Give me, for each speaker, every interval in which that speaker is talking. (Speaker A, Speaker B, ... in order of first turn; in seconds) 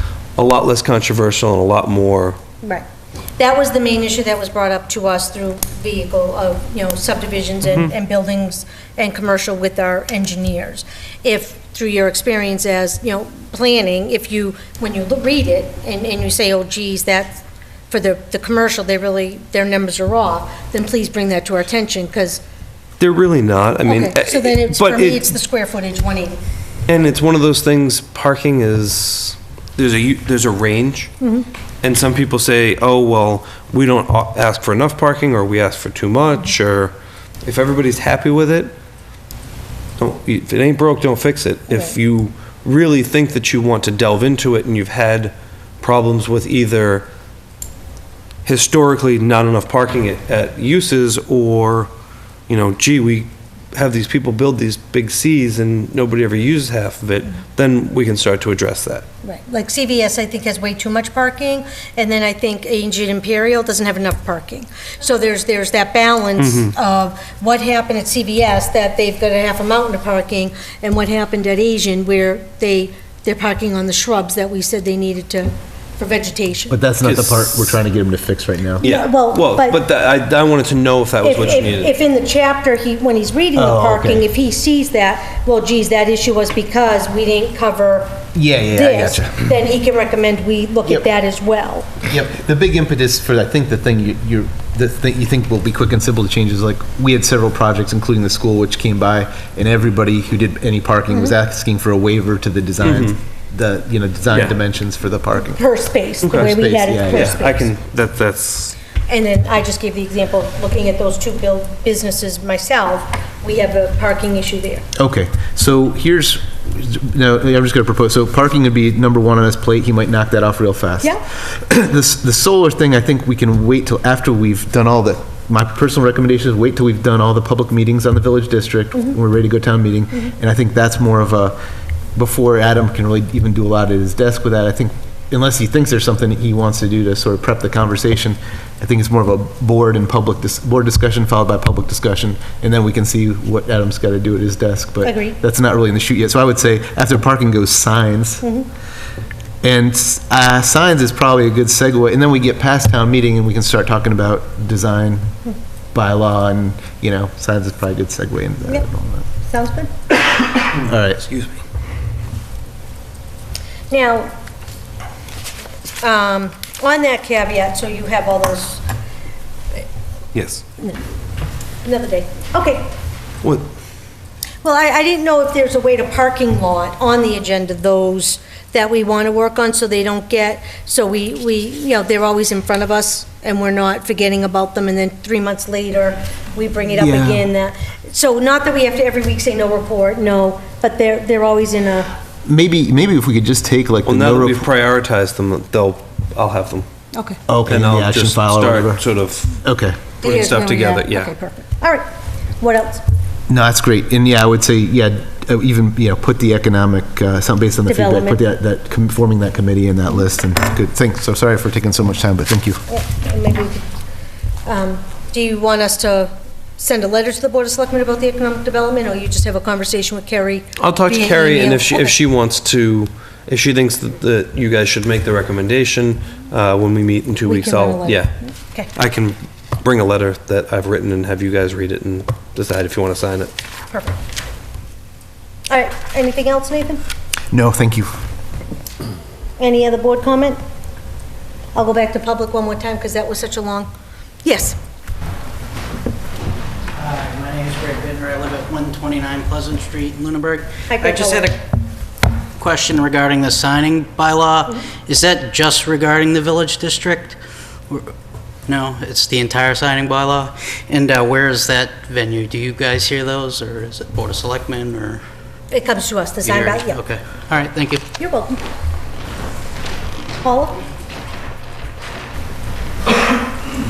Speaker A: 0.3-2.4, 7.6-7.9, 23.0-25.3, 26.9-31.1, 31.8-38.7, 40.0-47.1, 48.4-51.9, 52.5-59.0, 66.4-66.7, 77.0-77.8, 78.8-81.9, 102.8-103.2, 106.2-106.5, 107.1-108.8, 161.2-161.6, 170.3-170.6, 173.4-173.7, 194.1-196.9, 197.7-199.6, 200.2-201.3, 220.8-228.3, 228.9-233.5
Speaker B: 3.4-22.4, 23.8-26.4, 31.2-31.5, 59.2-76.8, 78.8-79.8, 81.2-92.0, 105.5-107.7, 109.1-114.8, 145.0-145.4, 148.4-148.7, 159.4-159.9, 163.9-164.3, 166.0-168.8, 171.8-172.9, 174.6-192.1, 197.1-197.4, 200.2-202.1, 202.6-203.0, 207.9-208.4, 212.9-213.9, 214.7-222.2, 227.4-228.9, 233.9-234.2, 235.7-237.0, 239.6-240.6, 241.7-243.9, 244.4-244.8, 250.9-251.5, 265.7-267.0, 268.2-268.6, 270.3-270.8
Speaker C: 76.7-78.8, 83.5-84.2, 88.3-89.5, 92.0-105.6, 106.2-107.4, 114.9-131.6, 132.2-148.4, 149.6-155.3, 155.9-159.2, 160.8-161.2, 187.0-187.4, 192.4-194.7, 197.5-199.0, 199.6-200.0, 203.5-212.8, 237.5-238.2
Speaker D: 246.9-251.6, 252.6-257.4, 258.7-265.2, 266.4-268.1